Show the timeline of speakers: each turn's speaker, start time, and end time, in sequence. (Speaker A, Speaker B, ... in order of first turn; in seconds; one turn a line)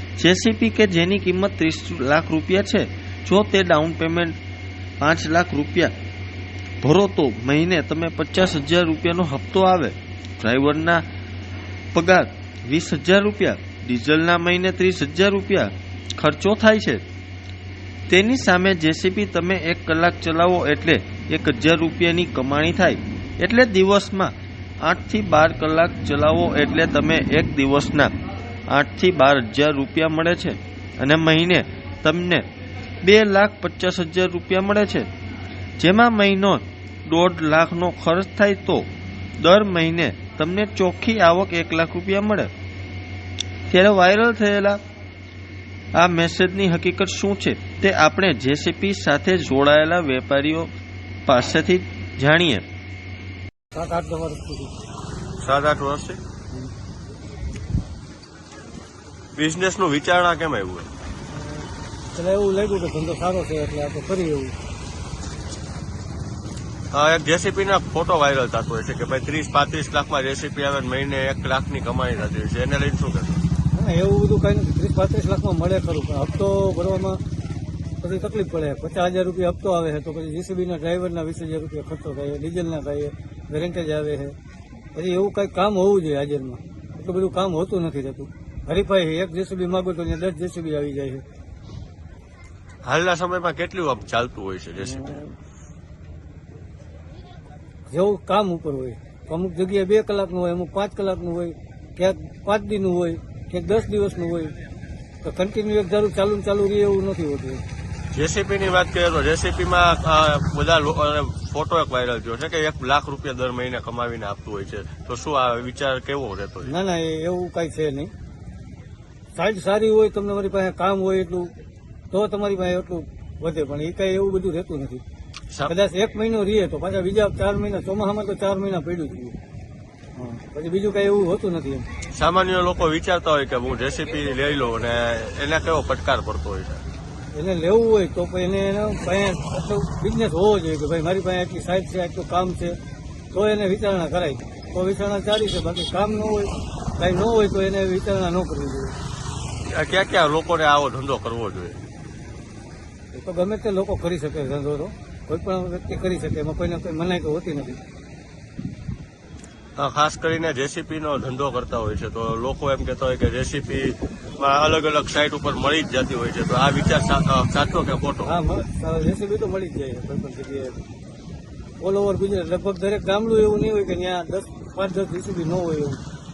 Speaker A: 0.2-4.4
Speaker A: 5.0-5.9
Speaker A: 6.8-11.1
Speaker A: 11.9-17.0
Speaker A: 18.1-28.1
Speaker A: 28.7-32.5
Speaker A: 33.0-35.1
Speaker A: 35.8-42.5
Speaker A: 43.7-44.8
Speaker A: 45.9-50.7
Speaker A: 51.2-52.6
Speaker B: 53.7-54.7
Speaker C: 55.4-56.2
Speaker C: 59.4-60.9
Speaker B: 61.3-64.5
Speaker C: 66.9-73.4
Speaker B: 73.7-77.2
Speaker B: 78.0-84.4
Speaker B: 85.0-91.2
Speaker C: 92.8-95.2
Speaker B: 97.9-104.5
Speaker B: 105.2-107.6
Speaker C: 108.1-116.7
Speaker B: 116.7-118.1
Speaker B: 119.4-121.5
Speaker B: 122.1-125.0
Speaker B: 125.7-129.4
Speaker B: 130.2-131.9
Speaker C: 132.1-136.8
Speaker B: 137.3-142.8
Speaker B: 143.3-148.9
Speaker C: 149.7-151.8
Speaker B: 153.1-157.8
Speaker C: 159.8-168.4
Speaker B: 168.2-170.8
Speaker B: 171.8-176.0